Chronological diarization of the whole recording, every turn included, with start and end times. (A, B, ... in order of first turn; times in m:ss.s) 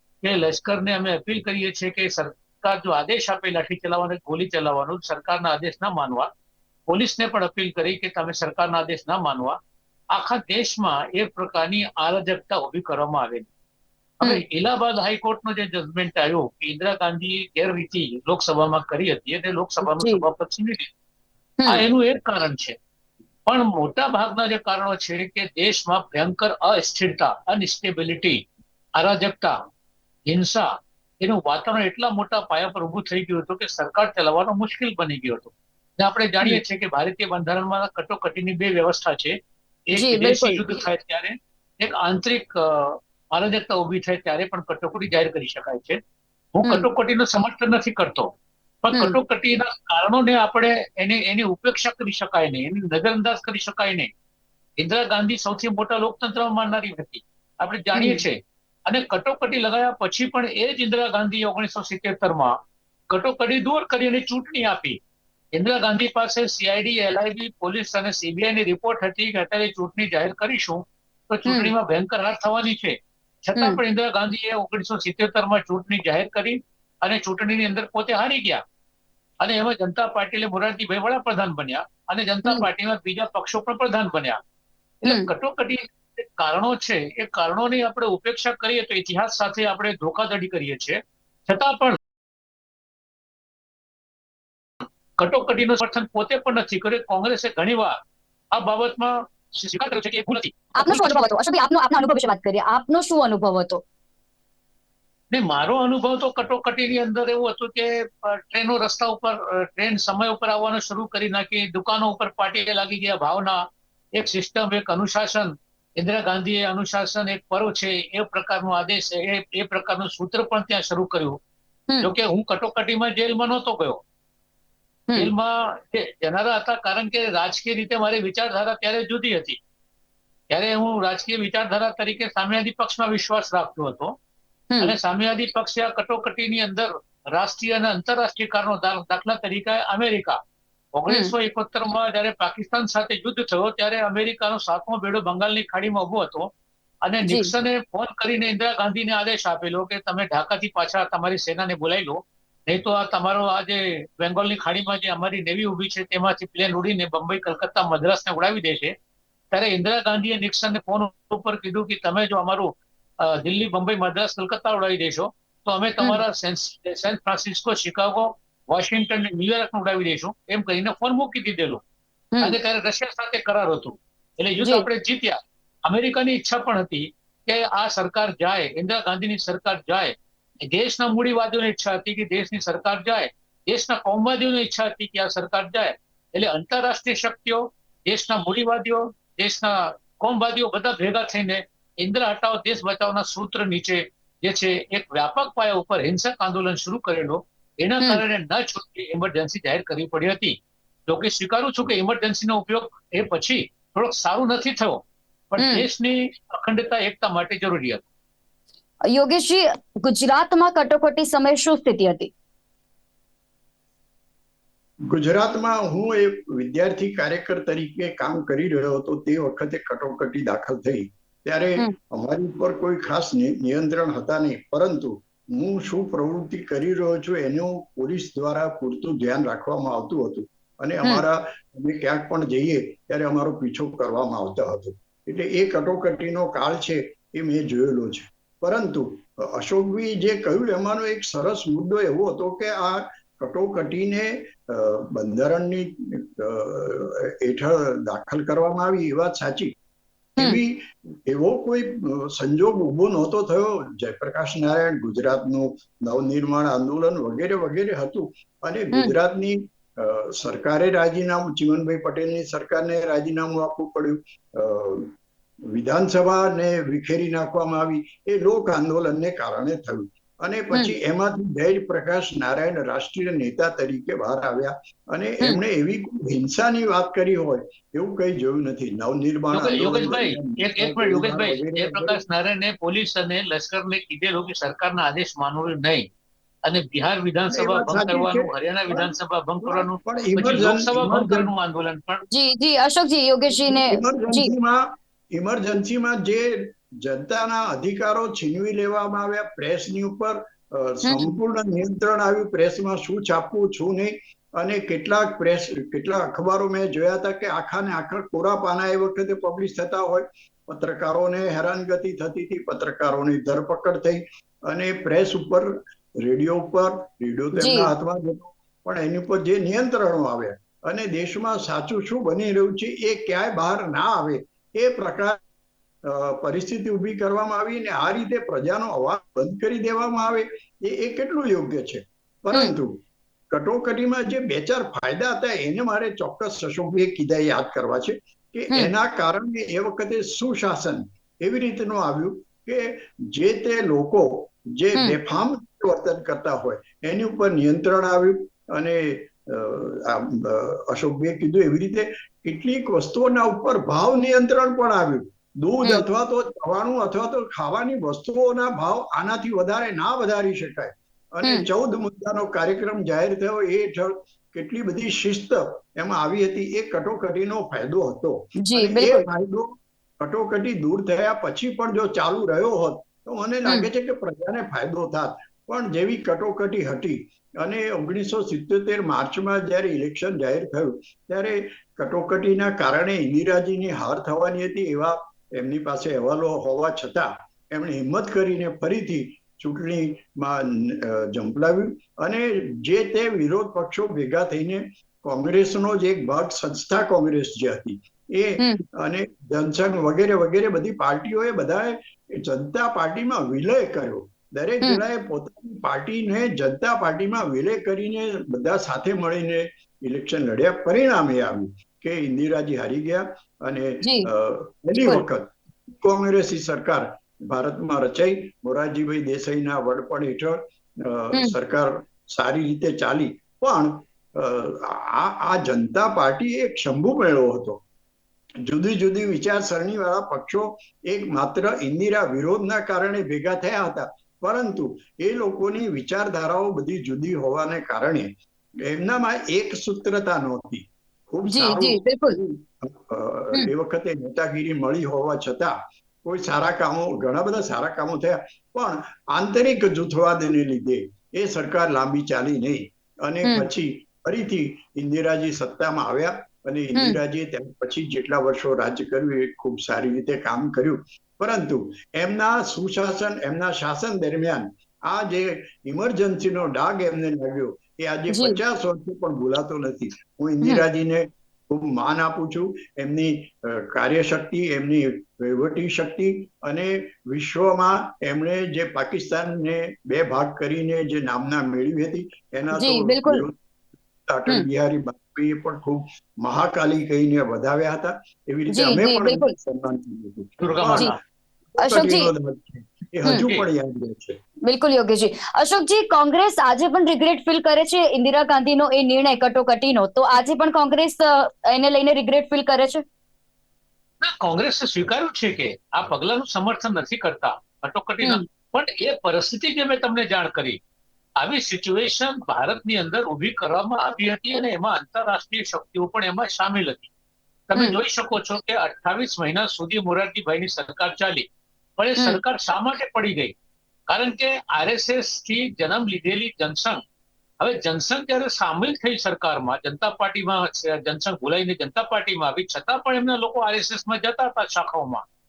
0:00.2-0:06.3 A
0:06.9-0:09.6 A
0:10.1-0:13.5 A
0:14.2-0:20.9 A
0:19.8-0:20.2 B
0:21.6-0:21.8 B
0:21.6-0:22.8 A
0:23.5-0:28.4 A
0:29.0-0:29.5 A
0:30.3-0:39.4 A
0:39.9-0:46.0 A
0:39.9-0:40.6 B
0:46.5-0:48.3 A
0:48.8-0:54.1 A
0:54.8-1:02.6 A
0:57.9-0:58.2 B
1:03.1-1:05.0 A
1:05.5-1:18.6 A
1:11.5-1:11.7 B
1:19.4-1:24.4 A
1:25.0-1:32.0 A
1:35.2-1:38.0 A
1:38.5-1:41.2 A
1:40.8-1:43.8 B
1:45.3-2:01.4 A
2:02.0-2:04.0 A
2:05.1-2:09.6 A
2:10.5-2:14.1 A
2:14.8-2:20.4 A
2:20.9-2:26.5 A
2:27.0-2:38.9 A
2:27.2-2:27.5 B
2:39.5-2:51.8 A
2:52.4-3:00.1 A
3:00.6-3:28.0 A
3:25.6-3:25.8 B
3:29.1-3:32.3 B
3:35.1-4:09.7 C
4:10.4-4:25.1 C
4:25.7-4:42.2 C
4:39.5-4:46.1 A
4:46.6-4:52.2 A
4:47.5-4:51.5 C
4:52.3-4:54.5 B
4:53.5-5:25.4 C
5:01.0-5:01.3 B
5:17.6-5:17.9 B
5:26.0-5:33.0 C
5:33.5-7:07.8 C
6:08.6-6:09.2 B
6:54.0-6:54.3 B
7:08.6-7:18.3 C
7:18.8-8:03.6 C
7:21.5-7:22.4 B
7:48.3-7:48.6 B
8:02.7-8:03.4 B
8:04.2-8:11.2 C
8:08.7-8:09.5 B
8:10.6-8:11.2 A
8:11.7-8:14.4 C
8:11.8-8:12.3 B
8:13.3-8:13.7 A
8:14.7-8:23.0 B
8:24.2-8:30.8 A
8:31.4-8:37.1 A
8:37.7-8:41.4 A
8:42.0-8:43.5 A
8:44.1-8:47.0 A
8:47.6-8:55.2 A